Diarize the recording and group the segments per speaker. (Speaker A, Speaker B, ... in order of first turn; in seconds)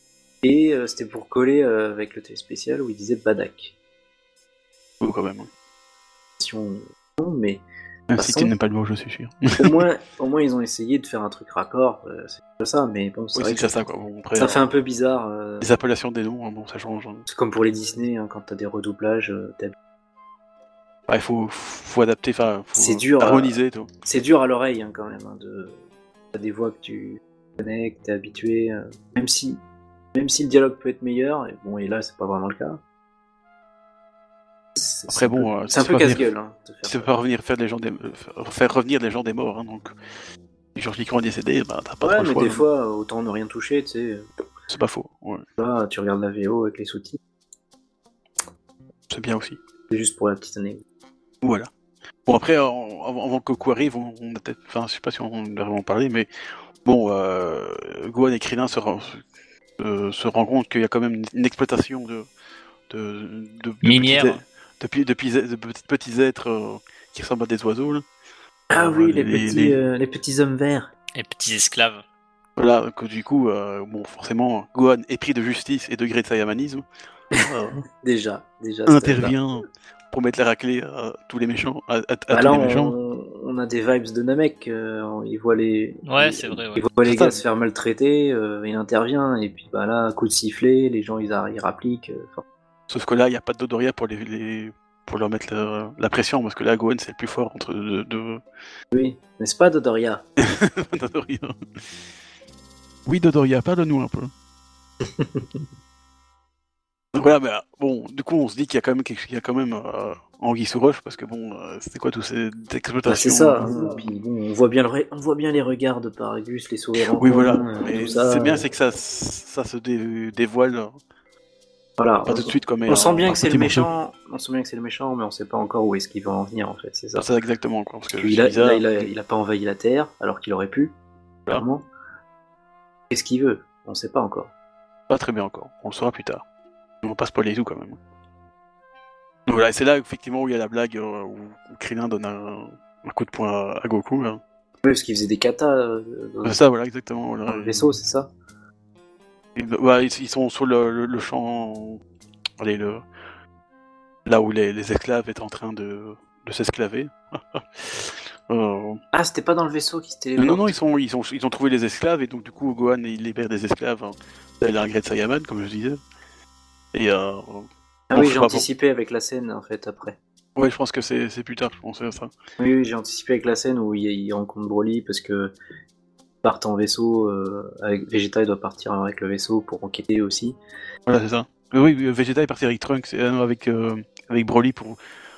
Speaker A: 0.4-3.7, 6.4-7.6, 8.2-8.5, 9.6-13.7, 14.3-15.7, 17.2-19.7, 22.7-25.8, 26.3-29.6, 30.1-32.8, 34.8-37.1, 42.0-44.3, 45.6-47.2, 49.9-50.8, 68.7-70.9, 77.3-79.3, 82.3-92.4, 98.9-100.2, 105.0-105.5, 113.0-118.6, 122.0-127.2, 128.2-130.9, 131.5-131.9, 133.1-134.5, 144.8-146.6, 147.4-148.3, 159.1-160.7, 168.1-170.2, 172.6-175.5, 176.4-180.6
Speaker B: 5.0-5.5, 8.1-9.8, 13.3-14.7, 15.6-17.2, 21.1-23.9, 35.1-36.2, 36.8-39.9, 40.7-42.6, 44.7-45.4, 49.1-49.6, 51.4-51.7, 52.2-56.3, 56.8-59.2, 59.8-62.3, 62.9-68.0, 68.7-69.8, 72.6-76.8, 77.3-77.8, 78.9-83.0, 87.0-87.4, 92.9-98.4, 100.4-101.5, 103.0-104.3, 107.1-113.7, 117.2-121.0, 122.2-123.9, 127.2-129.1, 135.1-136.4, 137.0-138.0, 139.5-144.4, 146.4-147.9, 149.5-152.0, 152.6-153.0, 154.2-159.0, 160.4-166.0, 166.9-168.7, 170.6-172.3, 181.1-185.0
Speaker C: 63.8-64.4, 71.1-72.0, 86.1-86.8